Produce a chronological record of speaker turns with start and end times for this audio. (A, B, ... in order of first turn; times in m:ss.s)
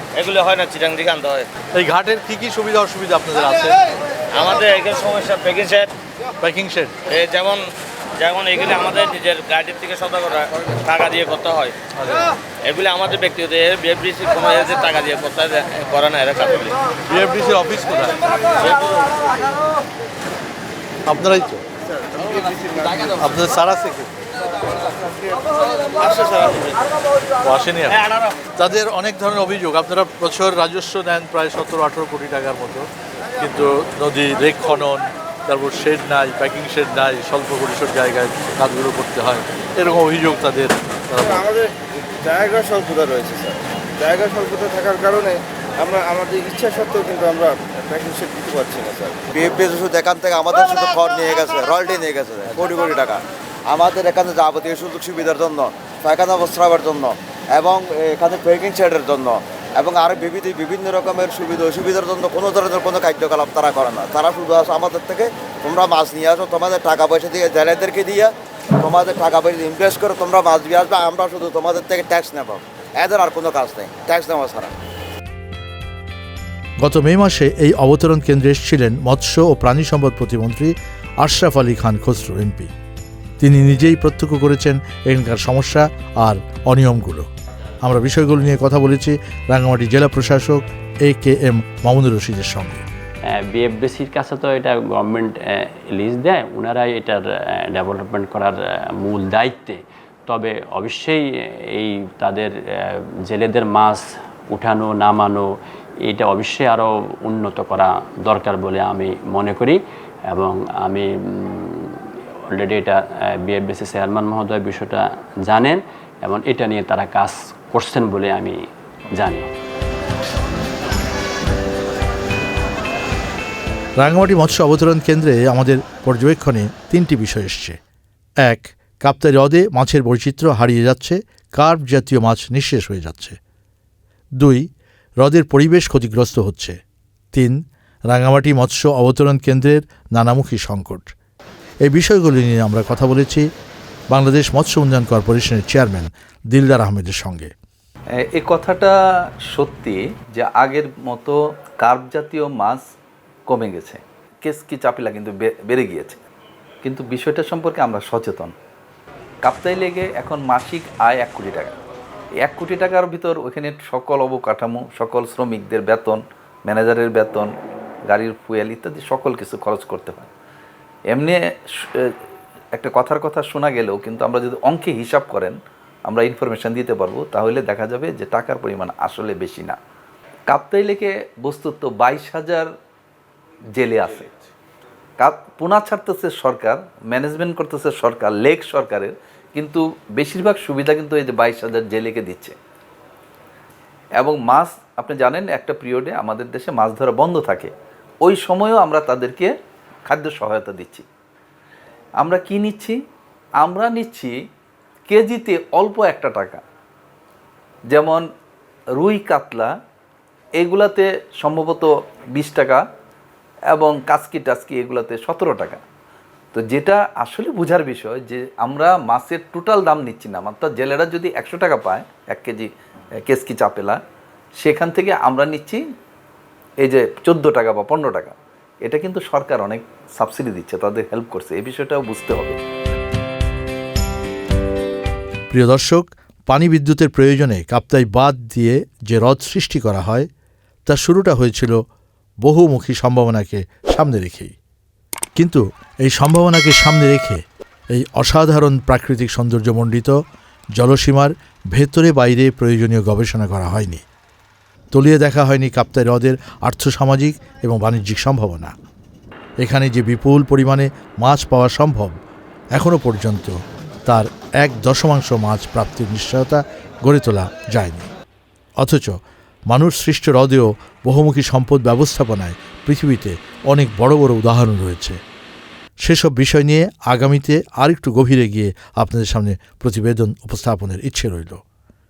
0:00.1-0:01.5 A
0:01.7-0:03.8 B
0:04.3-0:05.9 A
0:06.4-0:06.9 B
0:07.1-0:07.6 A
0:08.2-0:11.7 A
0:12.6-0:16.8 A
0:17.1-0:18.2 B
0:21.1-0:21.6 B
0:23.2-0:24.1 B
0:27.4-0:28.0 B
0:28.6-0:32.8 B
0:33.4-0:41.4 B
0:41.2-0:41.6 C
0:42.2-0:49.2 C
0:49.3-1:14.7 D
1:16.8-1:22.7 B
1:23.4-1:27.3 B
1:27.8-1:32.8 B
1:33.4-1:45.5 E
1:46.0-1:52.0 E
1:52.5-1:58.6 E
1:59.1-1:59.5 E
2:04.0-2:07.8 B
2:08.4-2:13.4 B
2:14.4-2:14.6 B
2:15.2-2:16.8 B
2:18.1-2:21.1 B
2:21.8-2:23.4 B
2:24.1-2:27.5 B
2:28.3-2:28.9 F
2:29.5-2:32.8 F
2:33.5-2:36.2 F
2:36.8-2:38.5 F
2:39.4-2:41.7 F
2:42.4-2:47.5 F
2:48.1-2:50.3 F
2:52.8-2:55.6 F
2:56.1-2:59.8 F
3:00.5-3:02.7 F
3:03.8-3:04.3 F
3:05.2-3:12.5 F
3:14.2-3:17.7 F
3:18.2-3:19.5 F
3:20.1-3:21.0 F
3:22.2-3:23.0 F
3:23.6-3:24.3 F
3:25.1-3:26.6 F
3:27.9-3:28.2 F
3:29.0-3:29.7 F
3:30.6-3:32.8 F
3:33.7-3:35.8 F
3:36.5-3:42.7 F
3:43.3-3:44.0 F
3:44.6-3:45.8 F
3:46.8-3:48.3 F
3:48.8-3:52.6 F
3:55.5-4:00.3 B
4:00.9-4:01.8 B
4:02.4-4:04.6 B
4:05.4-4:10.2 B
4:10.8-4:14.0 B
4:14.9-4:18.7 B
4:19.6-4:22.1 B
4:22.7-4:28.1 B
4:28.8-4:35.2 B
4:36.0-4:41.6 B